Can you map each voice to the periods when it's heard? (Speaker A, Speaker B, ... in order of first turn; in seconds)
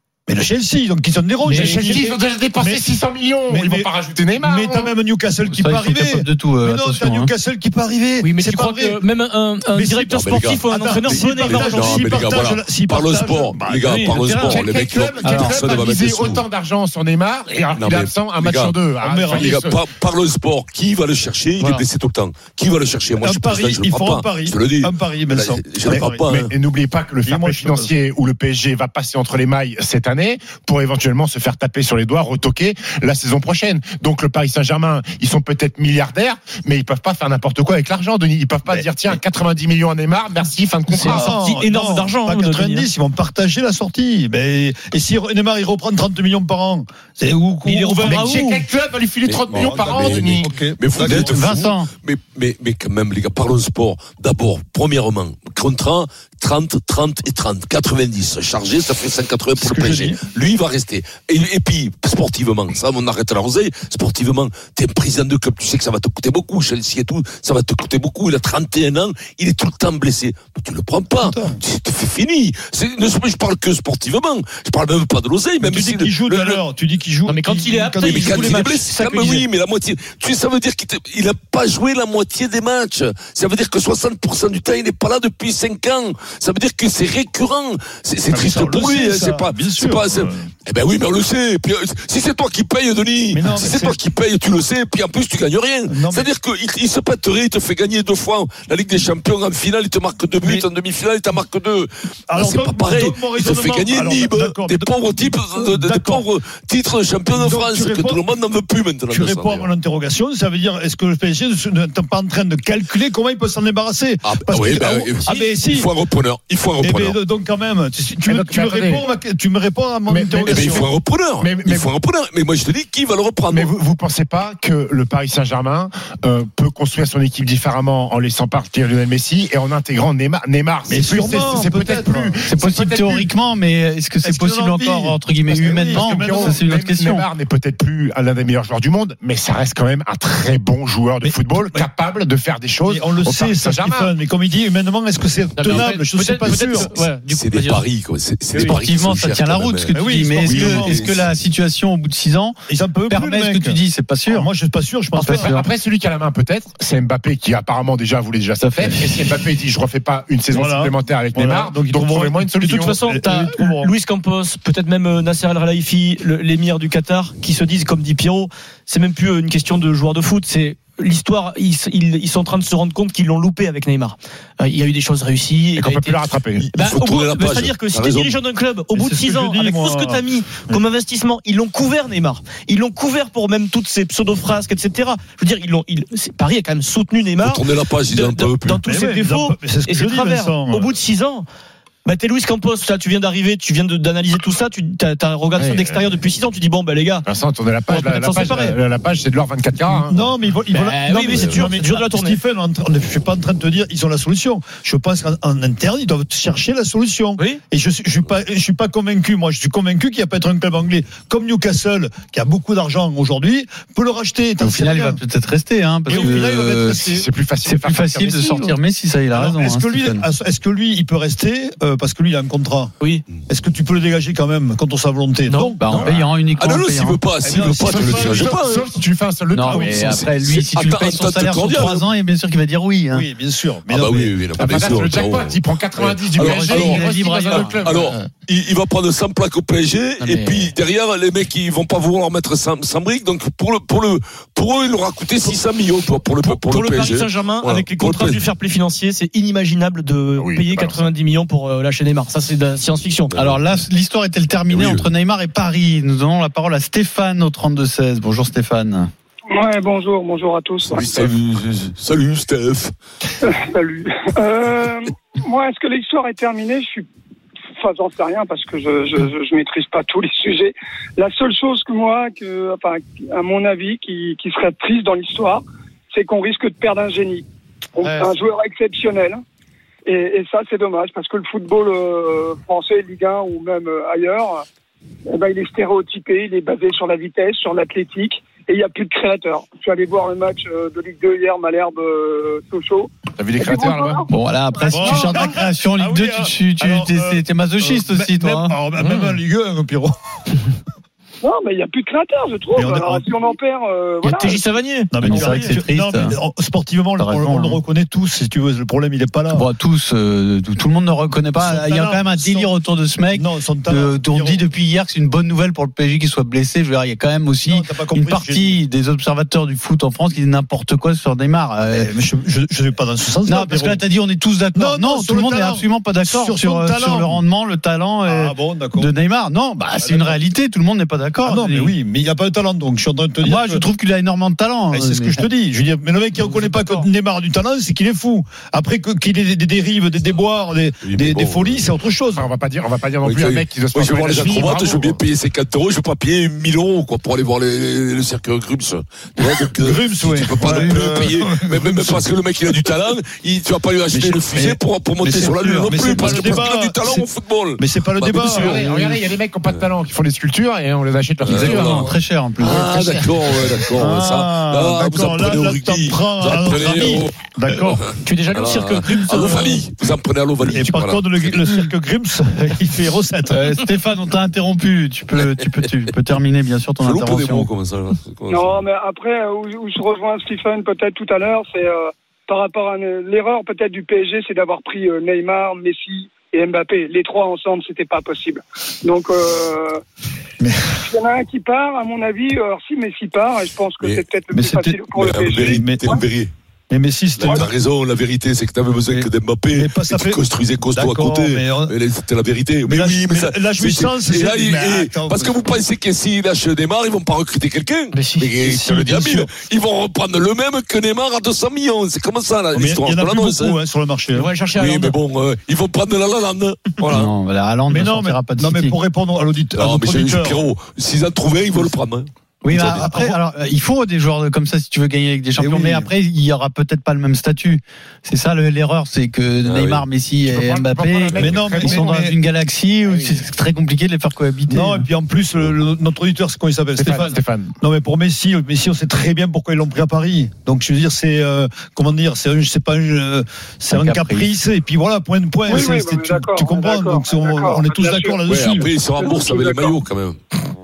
Speaker A: 0.3-2.9, 3.5-9.0, 9.7-13.9, 19.0-19.6, 23.2-26.2, 27.2-27.9, 41.0-48.3, 49.5-51.7, 59.5-60.2, 71.2-71.6, 75.6-78.7, 88.3-90.5, 93.3-94.0, 95.9-96.3, 102.3-105.0, 105.5-106.3, 107.3-108.2, 109.1-115.9, 116.8-120.9, 130.9-132.4, 134.2-136.6, 141.2-141.9, 142.8-146.9, 149.9-151.0, 152.7-155.5, 160.5-163.9, 178.9-180.8, 188.8-190.9, 199.9-215.2, 216.1-217.3, 219.3-222.9, 223.4-226.1, 227.4-228.6, 229.7-230.3, 233.1-234.4, 294.9-300.1, 302.7-303.3, 305.1-309.7, 311.6-312.7, 313.3-314.6, 317.6-318.8, 321.9-324.0, 324.7-327.4, 328.2-329.1, 330.0-330.4, 331.4-333.8, 334.9-342.5, 349.7-352.4, 354.1-358.9, 364.0-368.0, 370.6-373.6, 390.6-390.9, 394.5-395.0, 395.6-396.2, 396.9-397.7, 399.1-402.0, 402.8-405.8, 408.6-409.5, 412.7-414.5, 417.9-420.6, 422.8-423.4, 425.6-426.1, 431.3-432.4, 434.7-448.9
Speaker B: 1.4-4.9, 14.4-19.8, 25.8-41.4, 48.0-50.5, 118.2-119.0, 120.1-121.9, 123.5-133.3, 135.9-144.1, 155.3-163.0, 175.7-176.7, 195.6-196.1, 197.2-200.3, 217.0-218.7, 227.7-230.7, 234.6-238.3, 250.3-251.1, 293.3-294.2, 342.3-345.2, 358.4-362.2, 362.8-363.3, 430.4-432.2, 433.1-433.4, 436.9-437.7
Speaker C: 1.5-1.9, 8.2-12.0, 13.8-14.7, 21.6-21.9, 40.9-42.9, 47.6-48.7, 77.2-79.5, 145.6-147.8, 162.6-191.4, 192.0-197.3, 197.9-198.8, 200.7-202.4, 225.5-226.2, 240.2-240.6, 246.4-253.3, 299.0-299.4, 304.2-305.7, 368.1-369.9, 408.1-408.6, 414.3-415.2
Speaker D: 5.5-7.3, 15.2-15.6, 51.0-51.9, 132.4-137.3, 148.6-154.5, 155.2-155.7, 214.6-217.0, 217.6-220.2, 225.8-227.2, 229.5-233.3, 236.3-237.8, 253.3-259.1, 278.0-278.3, 294.3-298.7, 305.2-306.4, 307.2-307.8, 309.5-322.1, 323.4-331.9, 333.4-335.4, 350.6-351.2, 361.4-362.9, 373.5-377.7, 417.1-418.9, 422.6-435.1, 443.9-444.5
Speaker E: 10.1-16.4, 17.6-26.5, 49.2-76.6, 78.0-109.7, 114.2-117.2, 120.5-123.7, 147.3-151.3, 176.5-178.4, 187.4-188.8, 201.3-201.6, 226.6-228.9, 230.5-232.1, 233.9-248.4, 253.3-253.6, 254.7-255.1, 260.9-262.9, 341.0-341.9, 343.2-359.0, 361.4-368.0, 368.5-371.7, 377.0-378.9, 394.0-394.3, 395.1-396.5, 397.4-413.8, 414.8-417.3, 419.7-423.2, 429.6-430.1, 448.5-450.4
Speaker F: 259.5-261.1, 263.4-267.1, 267.8-279.4, 280.1-284.6, 285.3-295.4, 301.4-304.8, 378.5-390.0, 391.1-396.2, 445.6-448.4, 449.1-450.0